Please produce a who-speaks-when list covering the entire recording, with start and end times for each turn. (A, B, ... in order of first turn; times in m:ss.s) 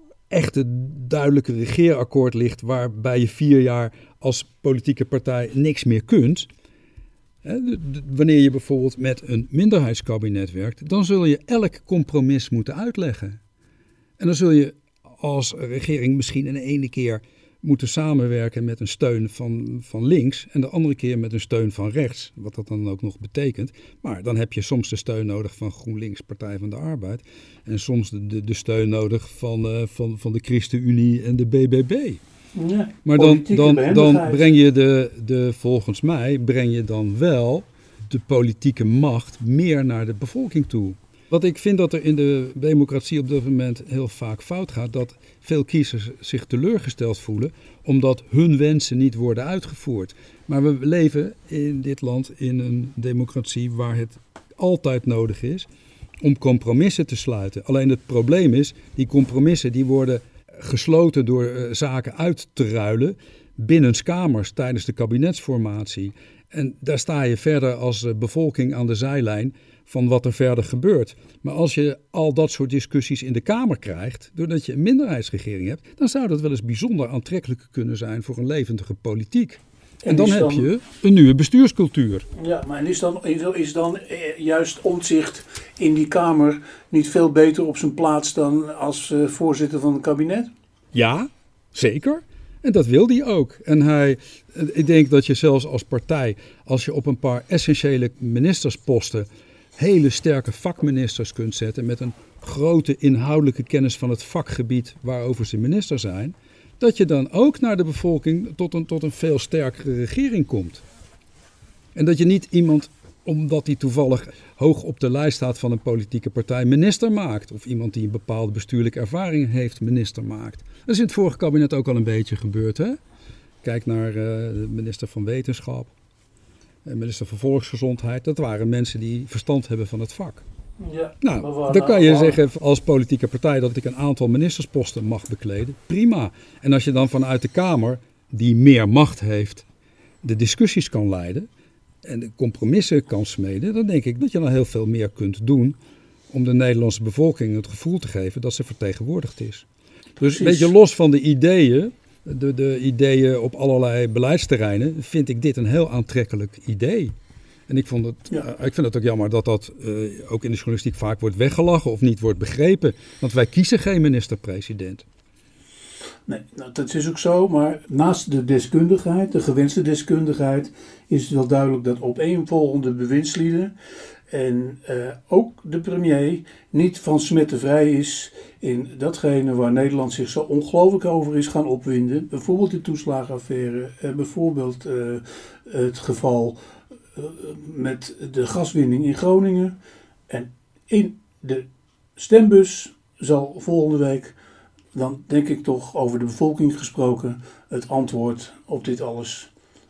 0:00.3-0:06.5 A
0:07.4-0:13.4 A
0:14.2-0:32.2 A
0:32.5-0:34.5 B
0:33.0-0:55.7 A
0:56.2-1:22.3 A
1:20.0-1:20.7 B
1:22.4-1:30.5 B
1:30.9-1:50.8 A
1:51.9-2:03.0 A
2:03.6-2:05.9 A
2:06.8-2:10.4 A
2:10.8-2:12.4 B
2:11.2-2:19.6 A
2:20.2-2:21.5 A
2:22.0-2:25.8 A
2:26.3-2:29.6 A
2:30.2-2:30.7 B
2:30.2-2:37.1 A
2:37.7-2:45.0 A
2:46.3-2:53.7 B
2:54.3-3:06.6 B
3:07.2-3:09.7 B
3:10.3-3:14.3 B
3:14.9-3:19.5 B